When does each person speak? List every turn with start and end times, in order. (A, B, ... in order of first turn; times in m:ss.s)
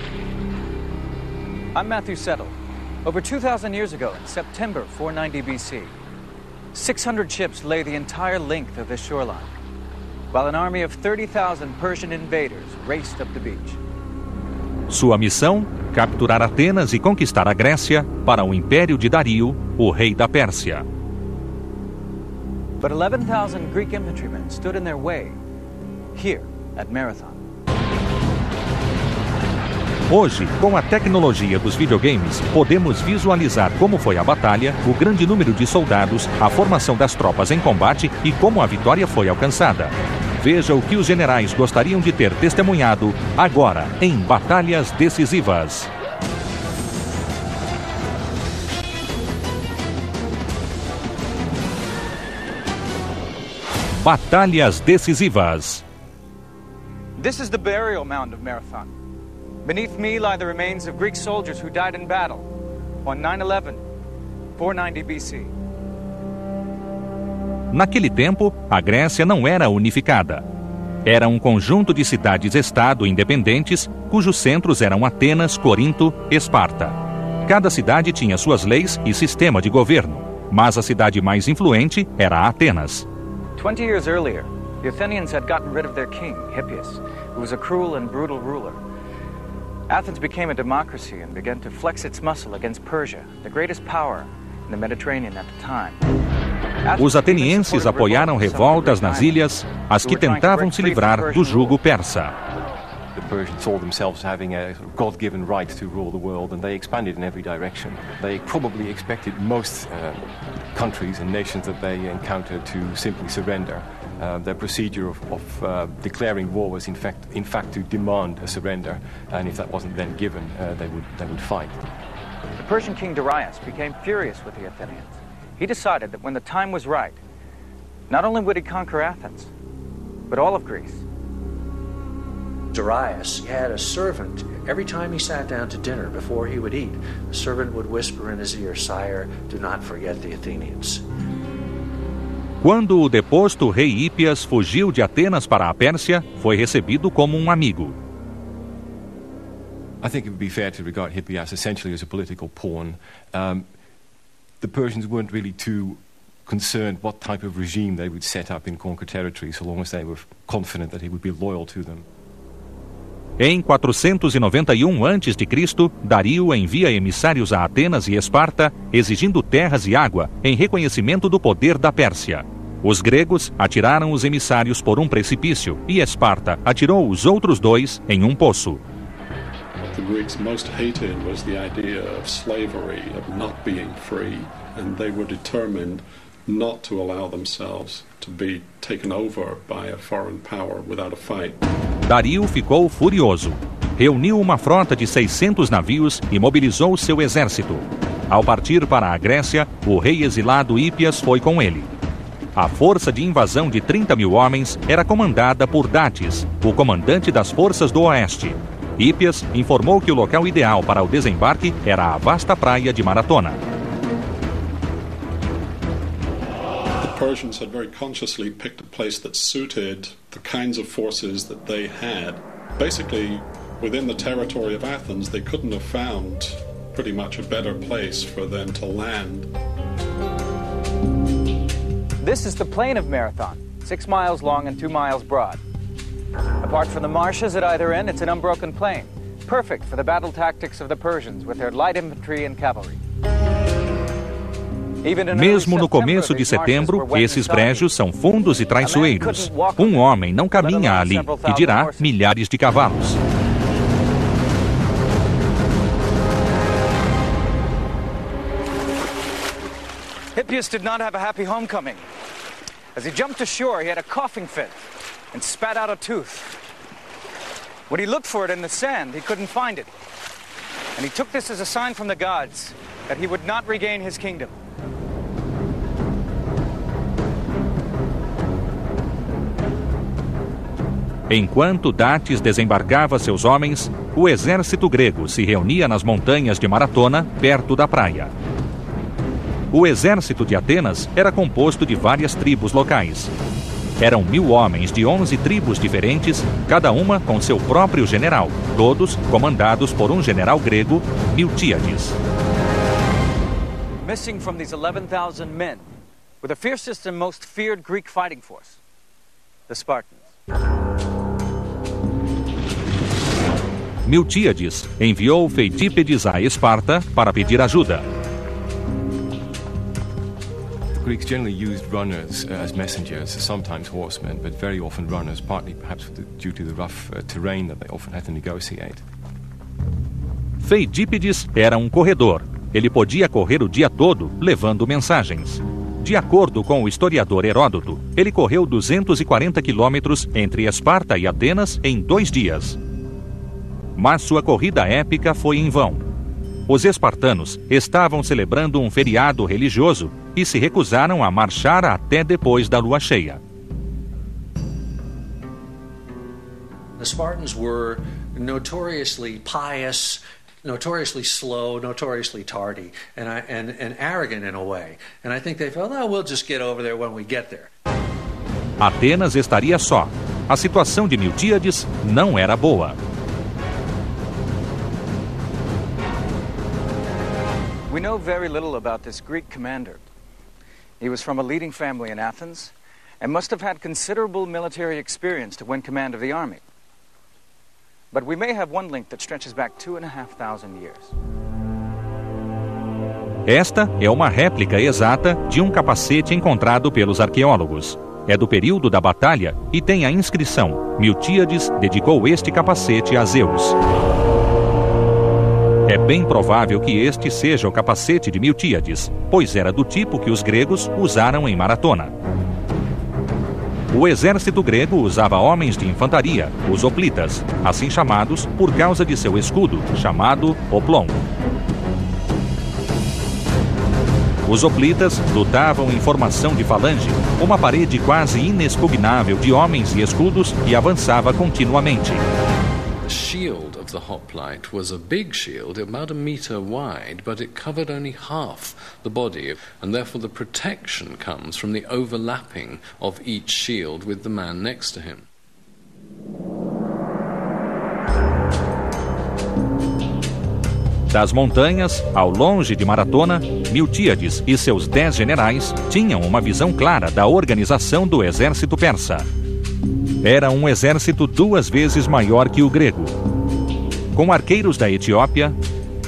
0:01.7-0:05.9 A
0:06.7-0:09.5 A
0:10.3-0:13.8 A
0:14.9-0:20.8 B
0:22.8-0:25.4 A
0:26.1-0:27.4 A
0:30.1-0:45.9 B
0:54.0-0:55.8 B
0:57.2-0:58.9 A
0:59.6-1:02.5 A
1:03.0-1:03.8 A
1:04.6-1:05.5 A
1:07.7-1:10.4 B
1:11.0-1:23.0 B
1:23.6-1:28.8 A
1:29.9-1:36.0 A
1:36.8-1:39.4 A
1:37.0-1:42.3 B
1:40.0-1:41.8 A
1:43.1-2:01.8 C
2:02.6-2:07.2 A
2:08.1-2:09.5 A
2:10.3-2:11.0 A
2:12.7-2:21.0 D
2:22.6-2:27.9 B
2:30.0-2:33.6 C
2:34.6-2:42.0 C
2:43.4-2:58.8 B
2:59.9-3:11.6 E
3:12.1-3:21.9 B
3:22.6-3:33.6 B
3:37.0-3:49.5 E
3:52.2-3:55.6 A
3:56.6-4:03.0 A
4:05.0-4:07.9 A
4:05.3-4:13.2 B
4:08.8-4:12.2 A
4:20.3-4:22.0 A
4:22.9-4:26.6 A
4:27.9-4:29.9 A
4:30.9-4:34.6 A
4:41.3-4:48.3 B
4:49.7-4:53.3 B
4:54.0-5:02.2 B
5:04.0-5:05.8 A
5:06.4-5:08.8 A
5:09.7-5:10.3 A
5:14.0-5:18.0 B
5:20.9-5:29.0 C
5:30.6-5:42.8 B
5:44.0-5:46.0 B
5:46.7-5:53.4 B
5:57.0-6:07.7 D
6:08.8-6:13.0 B
6:17.9-6:20.0 A
6:21.0-6:26.6 A
6:28.1-6:31.1 A
6:33.5-6:43.8 B
6:45.9-6:52.1 B
6:53.9-7:01.2 B
7:04.4-7:12.2 B
7:13.0-7:25.2 F
7:31.1-7:39.2 B
7:40.2-7:43.1 B
7:44.1-7:45.6 B